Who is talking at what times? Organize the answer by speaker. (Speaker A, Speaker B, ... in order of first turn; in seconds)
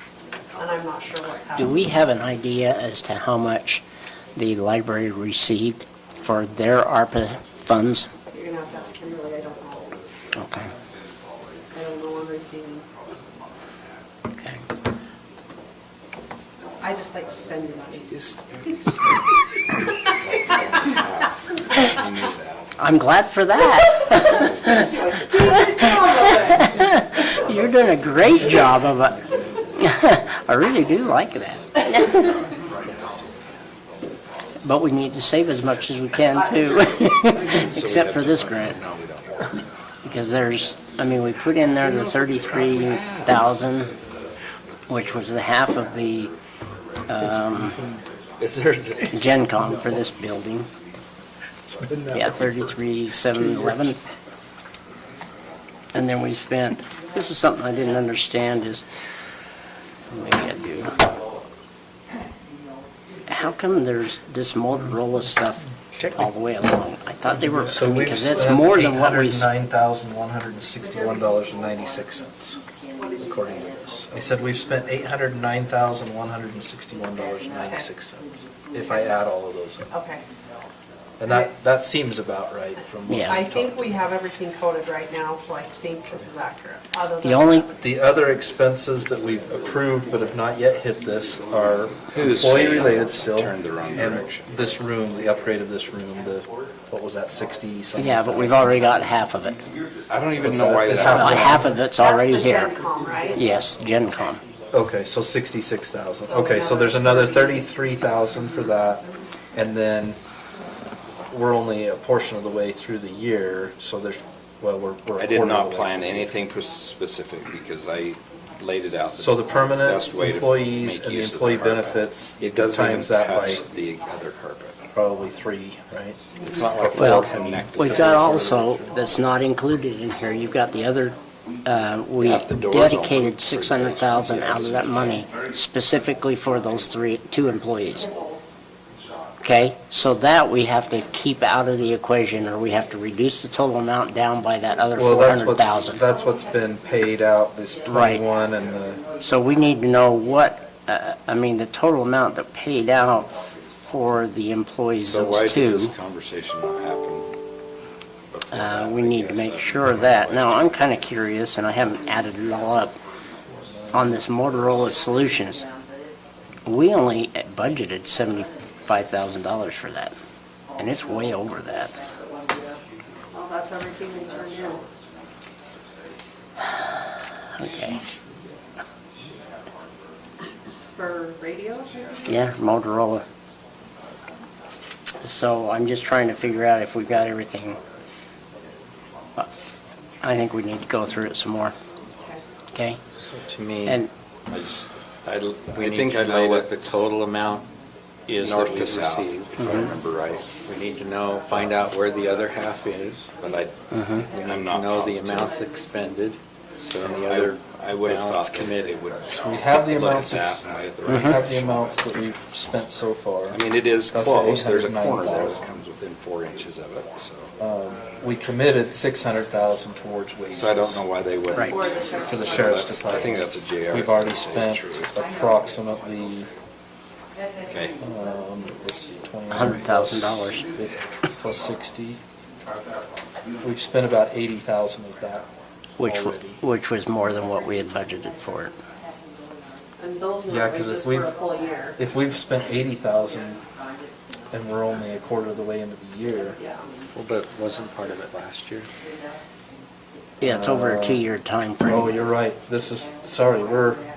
Speaker A: 0.5-1.8, 8.3-10.1, 11.7-12.9, 16.8-18.1, 24.1-27.6, 73.0-73.7, 79.9-80.2, 83.3-87.8, 101.9-103.4, 106.2-107.7, 126.3-126.8, 173.3-174.8, 180.9-182.4, 192.1-192.4, 221.6-222.9, 240.0-242.0, 246.6-246.9
Speaker B: 1.5-3.8, 4.3-8.1, 10.3-10.7, 14.3-14.6, 22.8-29.2, 29.8-32.4, 34.6-38.8, 40.0-43.9, 44.9-46.3, 47.1-47.8, 49.1-50.7, 52.0-54.0, 55.9-58.9, 60.1-60.9, 63.3-69.5, 83.1-83.4, 87.2-87.7, 98.0-99.6, 101.0-104.4, 126.9-138.1, 139.4-146.0, 147.9-148.2, 149.2-155.9, 158.5-162.9, 163.9-165.7, 166.7-170.1, 170.8-172.1, 177.6-178.0, 182.2-183.2, 185.2-187.8, 190.2-191.7, 192.7-193.0, 193.8-194.1, 199.6-199.9, 203.9-204.3, 211.1-211.4, 229.5-230.7, 236.0-238.7, 250.4-252.3
Speaker C: 17.9-18.4, 20.2-22.7, 37.3-39.4, 41.8-43.4, 92.1-94.5, 100.1-101.6, 115.2-124.8, 126.4-128.4, 132.2-135.3, 155.0-157.3, 158.3-160.8, 194.5-194.9, 195.7-196.8, 198.3-200.6, 201.5-201.8, 203.4-205.6, 206.9-212.0, 213.5-217.5, 220.5-221.8, 222.4-225.1, 227.7-227.9
Speaker D: 28.4-29.5, 32.9-33.3, 48.4-49.1, 51.6-52.1, 65.9-66.2, 67.3-72.6, 73.2-79.9, 81.2-83.8, 87.8-98.8, 100.4-101.8, 104.7-110.2, 111.3-116.3, 119.2-123.6, 124.9-126.2, 126.8-129.0, 144.9-149.0, 163.6-164.2, 209.3-215.6, 217.6-221.0, 222.2-226.5, 227.9-232.2, 233.6-235.5, 236.0-236.6, 240.5-241.3, 241.9-243.6, 244.5-246.6, 250.4-251.2, 251.8-254.0
Speaker E: 193.2-194.0, 195.2-197.7, 198.3-203.3, 204.2-209.1, 247.1-248.9